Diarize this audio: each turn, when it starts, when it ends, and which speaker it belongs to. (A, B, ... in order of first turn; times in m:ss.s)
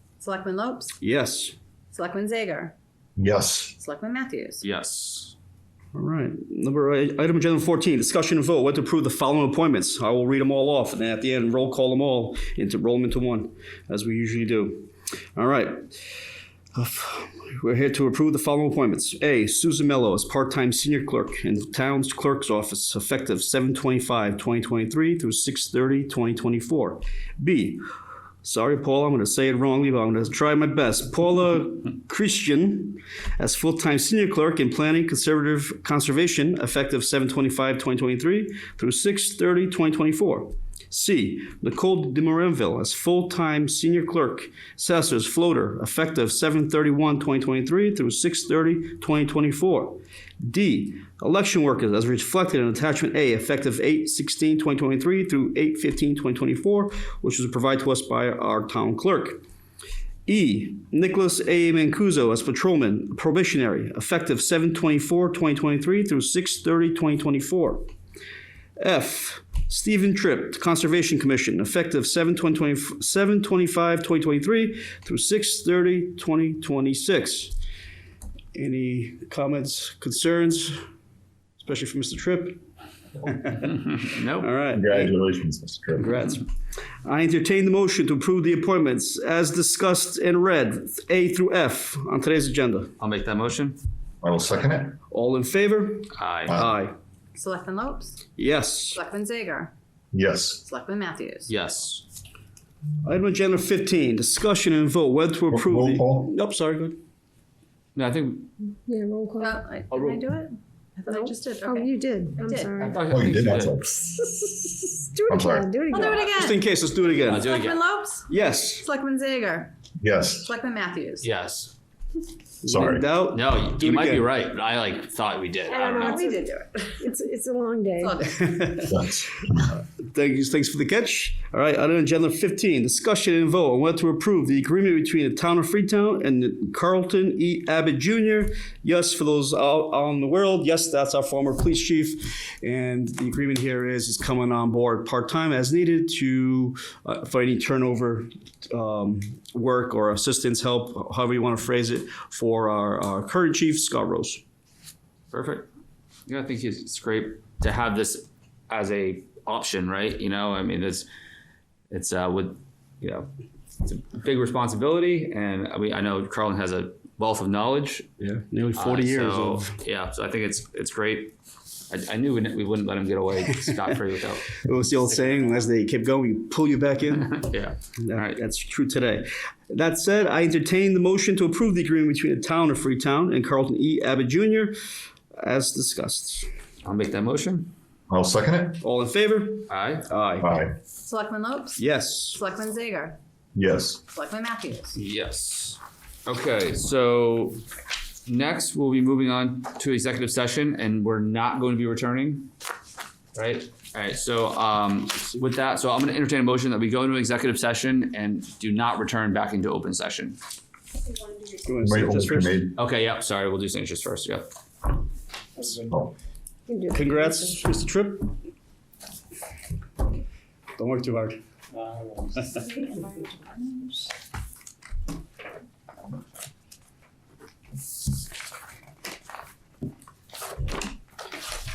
0:00.2-0:00.9 A
0:01.0-0:01.5 B
0:01.9-0:02.7 A
0:03.2-0:03.7 C
0:03.8-0:04.6 A
0:04.6-0:05.3 D
0:05.9-0:16.0 B
0:16.7-0:27.8 B
0:28.4-0:59.4 B
1:00.3-1:07.8 B
1:08.8-1:17.5 B
1:18.5-1:20.8 B
1:21.6-1:22.6 B
1:23.2-1:25.1 B
1:23.6-1:24.5 D
1:24.7-1:26.2 C
1:25.9-1:26.5 B
1:27.0-1:32.9 B
1:33.0-1:33.8 D
1:34.2-1:35.0 C
1:35.1-1:36.9 B
1:36.1-1:36.6 D
1:36.5-1:36.7 C
1:37.3-1:38.2 A
1:38.4-1:39.0 B
1:38.9-1:39.7 A
1:40.1-1:40.6 C
1:40.6-1:41.5 A
1:41.5-1:42.0 D
1:43.0-1:47.0 B
1:45.5-1:46.3 C
1:47.9-1:48.5 D
1:48.8-1:49.6 E
1:49.4-1:52.8 A
1:51.1-1:53.0 E
1:52.7-1:53.8 D
1:53.0-1:54.0 C
1:54.0-1:56.3 E
1:55.3-1:55.7 C
1:55.9-1:56.6 A
1:56.3-1:57.5 B
1:57.2-1:57.8 D
1:57.3-1:59.7 A
1:58.3-1:58.8 B
2:00.0-2:00.5 C
2:00.4-2:01.3 A
2:01.2-2:01.7 D
2:02.6-2:04.3 B
2:02.7-2:03.1 C
2:03.3-2:06.2 D
2:05.7-2:08.2 E
2:05.9-2:06.9 A
2:08.0-2:08.7 A
2:08.4-2:09.2 B
2:08.9-2:09.4 C
2:10.0-2:34.4 B
2:35.3-2:35.7 D
2:36.3-2:41.1 D
2:41.9-2:43.3 D
2:43.8-2:48.1 D
2:48.2-2:49.8 B
2:48.8-2:51.3 D
2:51.9-2:55.3 D
2:54.5-2:57.4 B
2:57.2-2:58.4 D
2:58.0-3:04.7 B
3:05.4-3:06.5 B
3:06.8-3:07.7 D
3:08.1-3:08.8 C
3:08.8-3:10.5 B
3:09.7-3:10.0 D
3:10.4-3:10.8 C
3:11.0-3:13.2 A
3:11.8-3:12.4 B
3:13.5-3:14.0 C
3:14.1-3:15.0 A
3:14.9-3:17.6 D
3:18.2-3:22.5 D
3:23.3-3:30.4 D
3:31.6-3:32.6 B
3:31.8-3:32.8 C
3:32.8-3:34.4 D
3:35.6-3:36.1 C
3:36.7-3:37.6 E
3:36.9-3:38.3 B
3:40.8-3:41.4 B
3:42.2-3:44.1 A